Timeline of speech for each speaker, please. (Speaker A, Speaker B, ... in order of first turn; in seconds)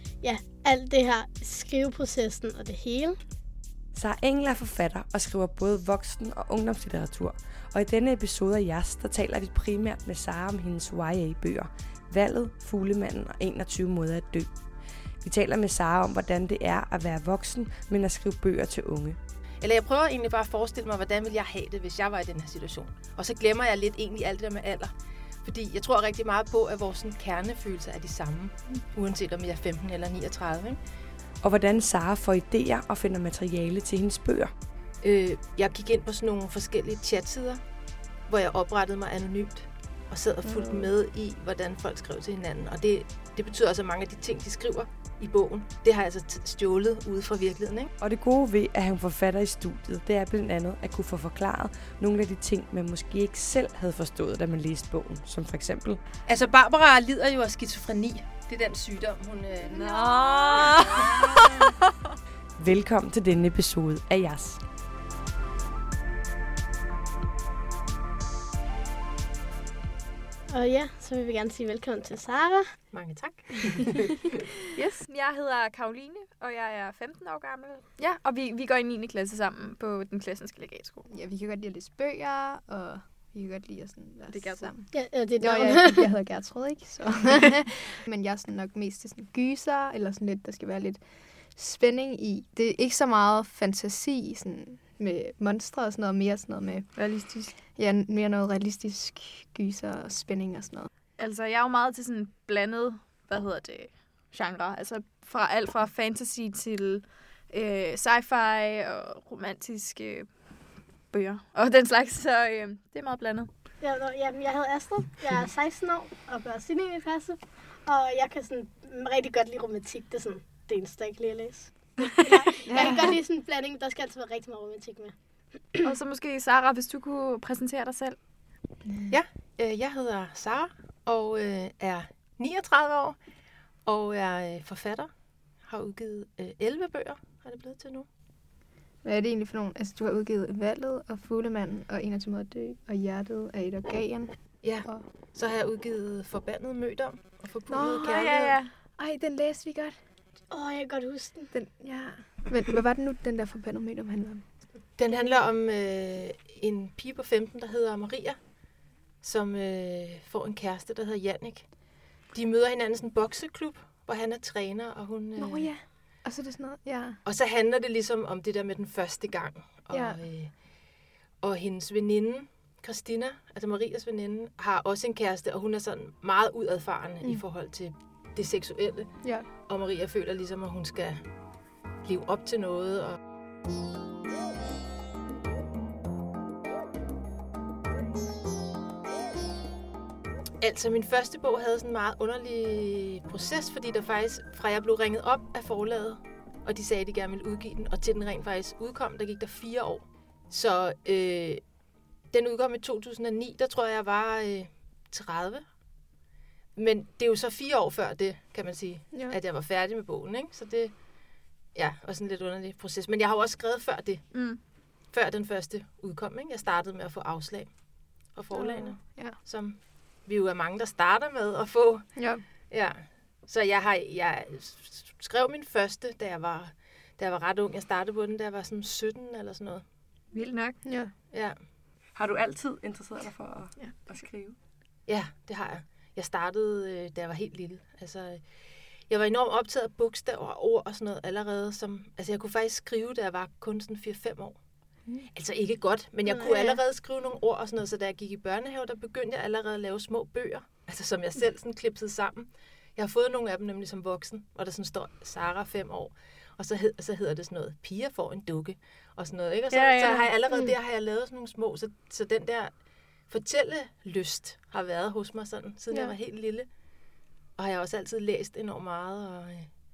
Speaker A: 0.2-3.2, 70.5-72.9, 84.9-86.1, 113.8-125.8, 150.5-151.5, 246.3-246.8, 259.9-260.7
Speaker B: 3.9-14.6, 15.2-19.2, 31.4-34.5, 48.0-56.0, 62.6-64.6, 232.1-234.6
Speaker C: 19.6-24.9, 25.4-30.8, 35.0-37.6, 38.3-47.9, 56.3-61.7, 72.9-74.0, 129.1-133.2, 133.8-135.1, 135.6-138.1, 144.6-148.6, 155.0-158.6, 159.2-165.9, 167.2-181.2, 182.0-183.2, 190.6-201.6, 202.3-205.7, 206.8-211.1, 211.7-229.8, 231.3-231.6, 235.1-238.4, 239.1-244.6, 245.3-262.8, 263.3-266.7, 267.6-269.7
Speaker D: 40.4-40.9, 81.1-100.9, 122.7-123.1, 128.9-129.1, 139.0-145.1, 147.7-150.0, 151.5-154.7, 165.4-167.2, 169.9-170.2, 179.2-179.5, 209.1-209.4, 218.5-219.4, 222.2-222.4, 230.8-231.1
Speaker E: 59.7-61.6, 74.8-81.1, 84.3-84.7, 97.0-97.6, 101.2-113.5, 122.3-123.1, 125.8-128.2, 148.0-148.7, 214.3-214.6, 230.3-230.8